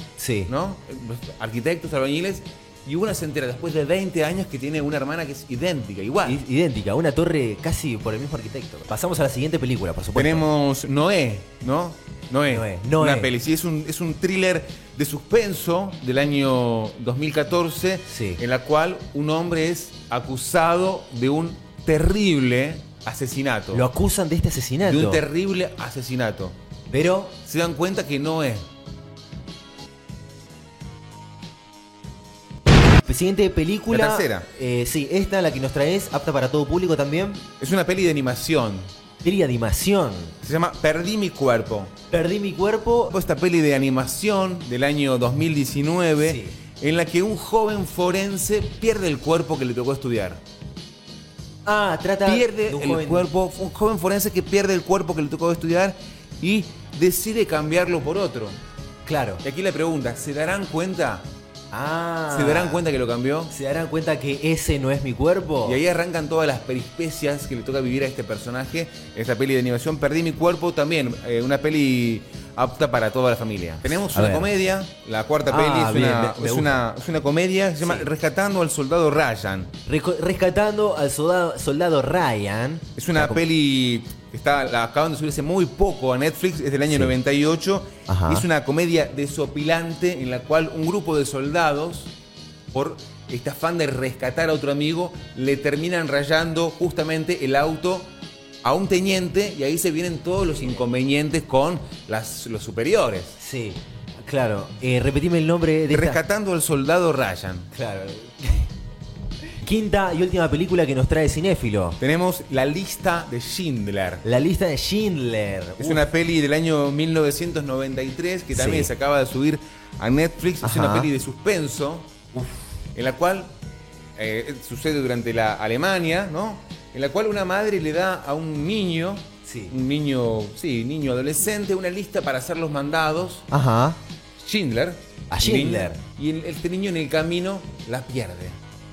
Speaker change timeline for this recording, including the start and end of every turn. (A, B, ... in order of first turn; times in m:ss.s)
0:00.2-0:00.5 A
0:00.5-0:06.4 B
0:06.2-0:10.4 A
0:10.1-0:23.8 B
0:12.5-0:13.3 A
0:18.0-0:18.4 A
0:23.7-0:25.2 A
0:24.8-0:26.6 B
0:26.9-0:27.3 A
0:27.4-0:28.6 B
0:33.0-0:37.4 A
0:33.9-0:34.5 B
0:37.6-0:38.9 B
0:39.2-0:40.4 A
0:40.4-0:41.9 B
0:42.1-0:43.1 A
0:43.1-0:50.4 B
0:46.2-0:46.6 A
0:51.6-0:53.3 A
0:52.2-0:58.6 B
0:59.0-0:59.4 A
0:59.4-1:01.2 B
1:01.7-1:02.8 A
1:02.3-1:03.5 B
1:03.5-1:05.8 A
1:05.6-1:19.7 B
1:13.9-1:14.5 A
1:15.5-1:16.8 A
1:17.8-1:18.1 A
1:19.9-1:23.4 A
1:23.0-1:32.1 B
1:28.1-1:28.4 A
1:32.7-1:38.1 B
1:38.6-1:43.4 B
1:43.4-1:46.2 A
1:45.9-1:47.7 B
1:47.7-1:48.7 A
1:49.6-1:52.0 A
1:52.0-1:54.2 B
1:54.2-1:56.0 A
1:55.8-2:02.1 B
1:58.5-1:58.9 A
2:00.6-2:01.1 A
2:02.9-2:03.5 B
2:04.2-2:13.5 B
2:09.4-2:09.7 A
2:13.5-2:14.0 A
2:14.4-2:18.6 B
2:15.3-2:16.0 A